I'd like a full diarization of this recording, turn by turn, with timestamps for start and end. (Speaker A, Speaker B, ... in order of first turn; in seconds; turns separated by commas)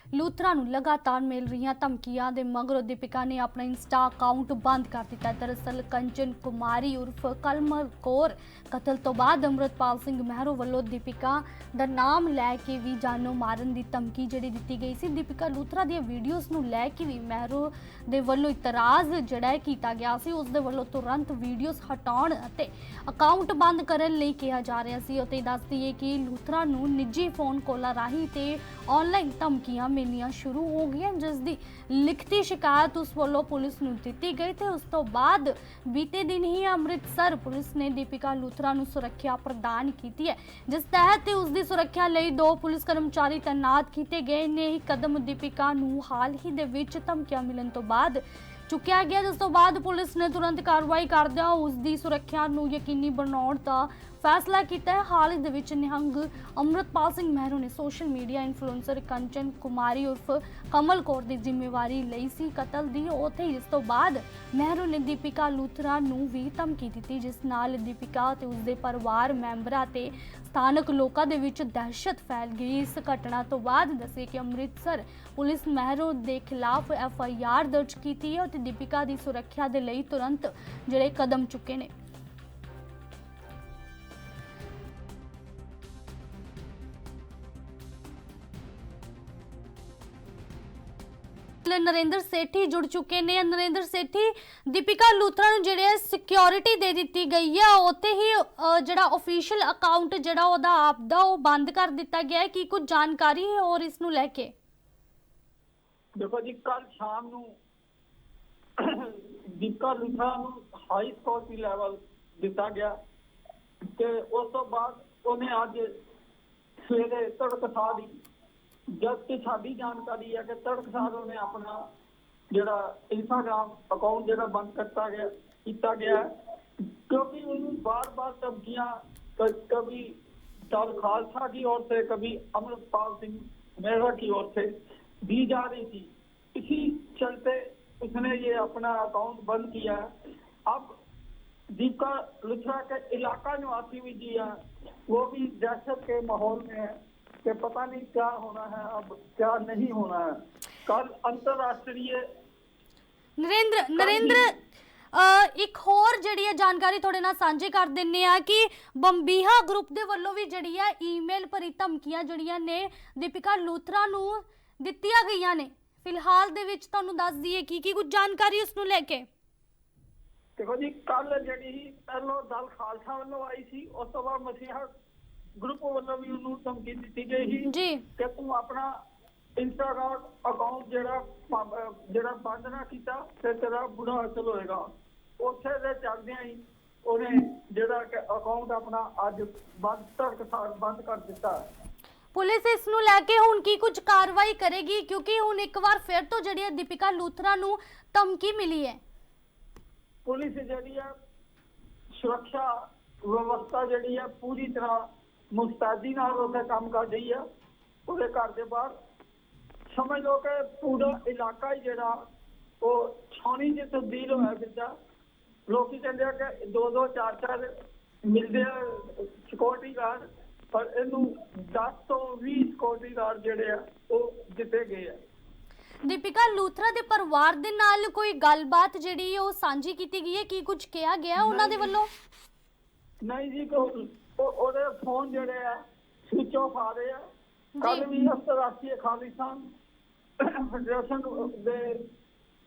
Speaker A: 0.1-81.9, Speaker A: 91.6-104.5, Speaker B: 106.2-107.5, Speaker B: 108.8-112.9, Speaker B: 113.9-115.9, Speaker B: 116.9-118.1, Speaker B: 119.0-121.8, Speaker B: 122.5-126.3, Speaker B: 127.1-130.1, Speaker B: 130.7-134.7, Speaker B: 135.2-140.1, Speaker B: 140.7-140.9, Speaker B: 141.8-144.5, Speaker B: 145.1-150.3, Speaker B: 150.9-152.2, Speaker A: 153.4-154.5, Speaker B: 154.0-154.5, Speaker A: 155.1-169.3, Speaker B: 170.6-174.9, Speaker B: 175.6-178.9, Speaker A: 177.7-178.0, Speaker B: 179.6-184.9, Speaker B: 185.4-191.6, Speaker A: 192.3-199.0, Speaker B: 200.2-201.1, Speaker B: 202.2-202.7, Speaker B: 203.3-207.4, Speaker B: 208.1-208.9, Speaker B: 209.9-212.2, Speaker B: 212.8-214.9, Speaker B: 215.7-217.7, Speaker B: 218.3-225.2, Speaker A: 226.1-232.1, Speaker B: 231.4-232.0, Speaker B: 233.2-237.2, Speaker A: 237.8-238.1, Speaker B: 237.8-239.6, Speaker B: 240.4-242.0